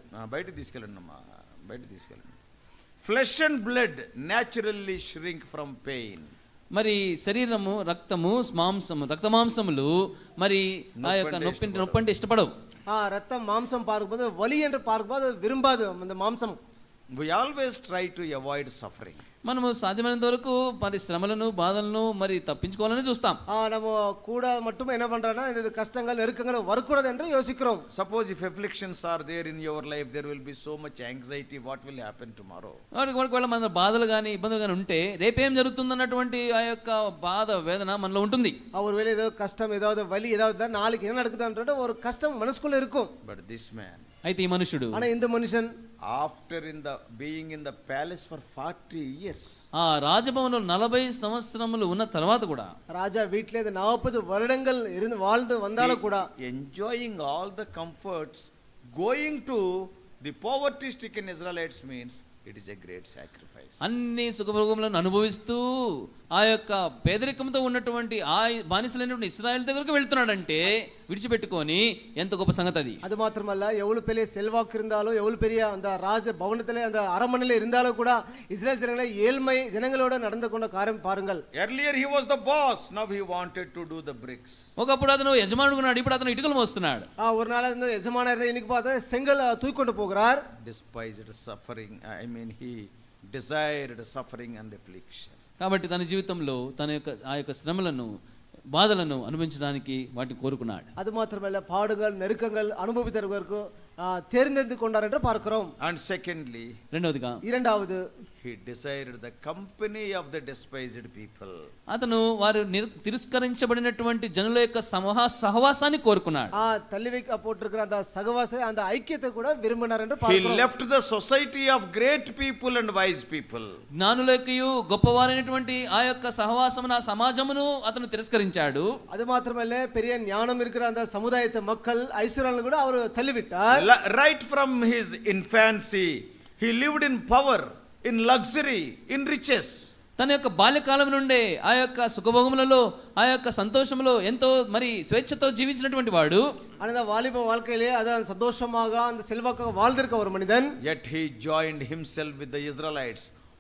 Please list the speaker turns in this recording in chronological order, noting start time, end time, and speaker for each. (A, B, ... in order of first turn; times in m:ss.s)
0:00.2-0:02.4 A
0:03.0-0:06.3 A
0:06.7-0:12.5 B
0:11.0-0:12.0 A
0:12.9-0:16.6 C
0:17.1-0:19.2 A
0:19.4-0:23.4 B
0:23.5-0:27.8 C
0:27.9-0:32.8 A
0:32.9-0:38.6 B
0:38.7-0:43.1 C
0:43.2-0:44.1 A
0:44.2-0:45.0 B
0:44.9-0:45.7 C
0:46.0-0:49.5 A
0:49.8-0:52.7 B
0:52.9-0:56.3 C
0:55.8-1:03.8 A
1:03.8-1:13.0 B
1:13.0-1:21.4 C
1:21.5-1:24.6 A
1:24.8-1:27.1 B
1:27.2-1:30.4 C
1:30.6-1:35.4 A
1:35.6-1:38.1 B
1:38.7-1:40.9 B
1:41.0-1:45.7 C
1:45.8-1:46.8 A
1:46.9-1:47.4 B
1:47.4-1:48.0 C
1:48.4-1:51.7 A
1:51.9-1:56.5 B
1:56.6-2:00.7 C
2:00.2-2:03.8 A
2:04.0-2:08.9 B
2:09.1-2:13.9 C
2:13.7-2:19.9 A
2:20.2-2:26.4 B
2:26.8-2:30.8 C
2:30.8-2:33.3 A